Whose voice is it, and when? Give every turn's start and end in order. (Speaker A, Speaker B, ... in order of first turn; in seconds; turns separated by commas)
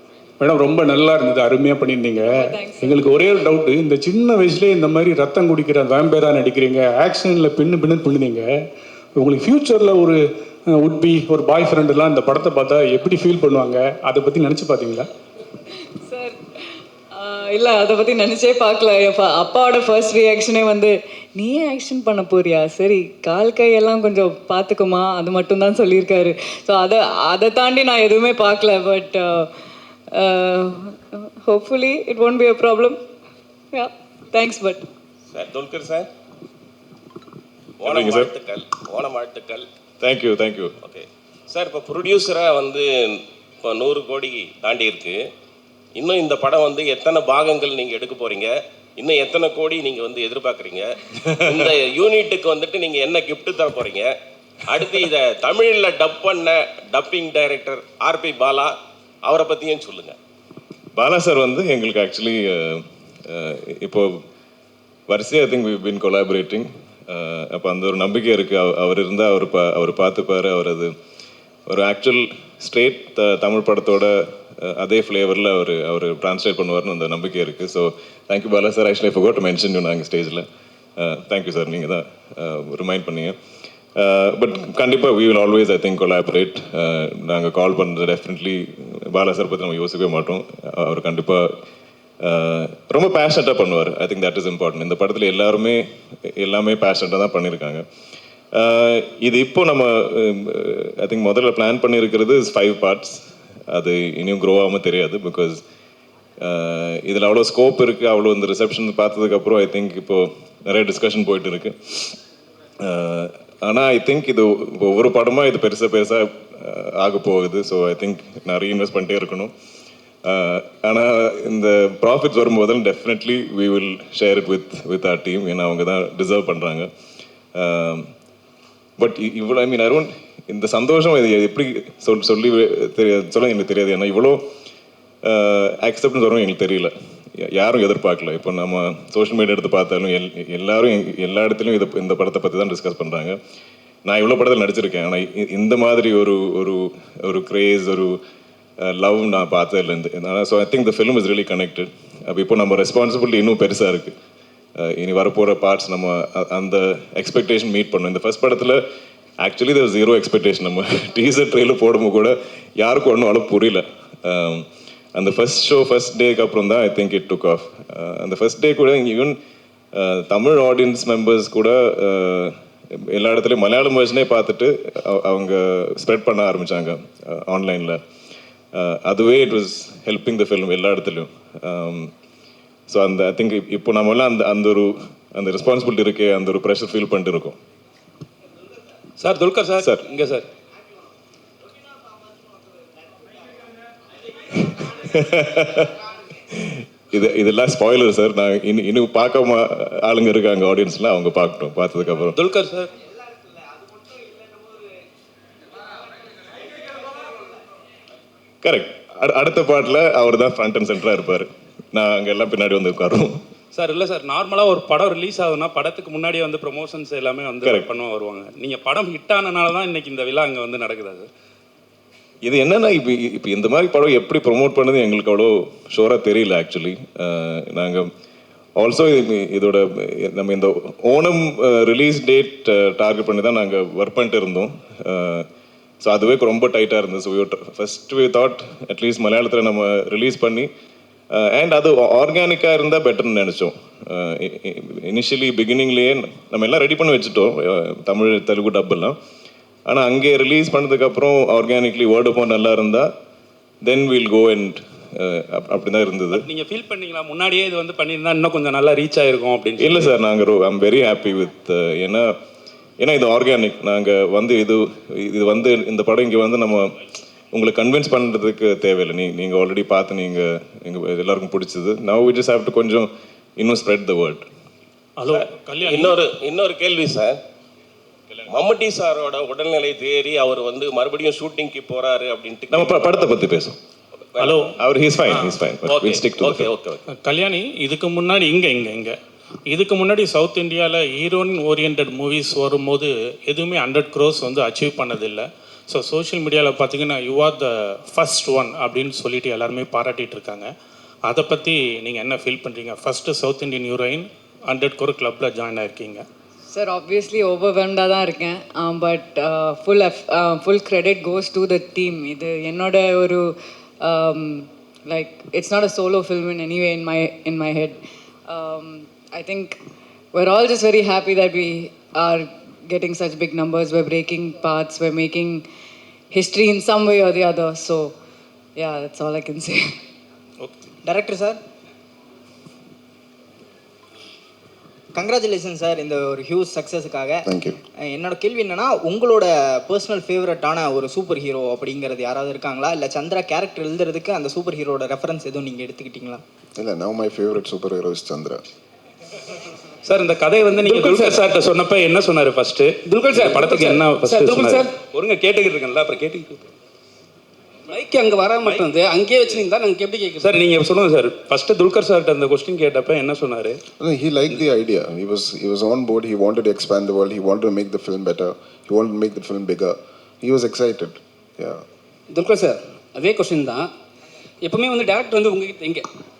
Speaker A: 0.4-8.4, Speaker B: 2.2-3.5, Speaker A: 9.2-10.2, Speaker A: 10.7-15.1, Speaker B: 16.1-16.4, Speaker B: 17.1-29.5, Speaker B: 30.1-33.0, Speaker B: 33.7-34.8, Speaker C: 35.3-36.1, Speaker C: 37.8-39.7, Speaker D: 37.8-38.3, Speaker D: 40.0-40.7, Speaker C: 40.8-45.2, Speaker C: 45.9-54.1, Speaker C: 54.7-60.2, Speaker D: 61.0-64.1, Speaker D: 65.1-70.9, Speaker D: 71.7-80.4, Speaker D: 81.0-83.3, Speaker D: 84.0-91.5, Speaker D: 92.2-97.8, Speaker D: 98.5-105.6, Speaker D: 106.4-112.1, Speaker D: 112.8-119.5, Speaker D: 120.2-126.9, Speaker D: 127.5-128.1, Speaker D: 129.0-134.4, Speaker D: 135.2-143.4, Speaker D: 144.1-148.2, Speaker D: 148.8-154.1, Speaker D: 154.8-158.8, Speaker D: 159.4-169.4, Speaker D: 169.9-178.0, Speaker D: 178.7-182.1, Speaker D: 182.9-187.6, Speaker E: 189.2-190.4, Speaker D: 189.8-190.1, Speaker D: 194.6-195.9, Speaker D: 196.5-202.4, Speaker E: 202.3-202.9, Speaker D: 208.6-213.4, Speaker E: 213.7-221.3, Speaker D: 217.6-217.9, Speaker D: 222.4-228.1, Speaker D: 228.8-235.4, Speaker D: 236.0-240.7, Speaker D: 241.3-249.2, Speaker D: 249.9-253.1, Speaker D: 253.8-256.5, Speaker E: 256.3-260.1, Speaker D: 259.8-262.3, Speaker D: 263.0-266.9, Speaker D: 267.5-274.4, Speaker F: 275.2-276.1, Speaker C: 275.3-277.4, Speaker C: 278.5-283.0, Speaker D: 282.7-283.8, Speaker C: 284.3-284.8, Speaker F: 284.4-284.7, Speaker D: 284.8-286.7, Speaker C: 285.8-287.0, Speaker F: 287.2-300.7, Speaker F: 301.3-306.2, Speaker B: 306.7-319.8, Speaker B: 320.3-325.6, Speaker B: 326.3-328.1, Speaker B: 328.8-329.9, Speaker G: 331.0-331.6, Speaker G: 335.1-337.5, Speaker H: 337.4-337.8, Speaker G: 338.0-346.4, Speaker H: 346.8-348.6, Speaker E: 350.1-356.6, Speaker I: 350.6-351.4, Speaker I: 353.1-354.9, Speaker I: 357.9-360.6, Speaker E: 360.4-363.8, Speaker H: 364.0-371.8, Speaker I: 372.3-373.9, Speaker I: 374.6-376.1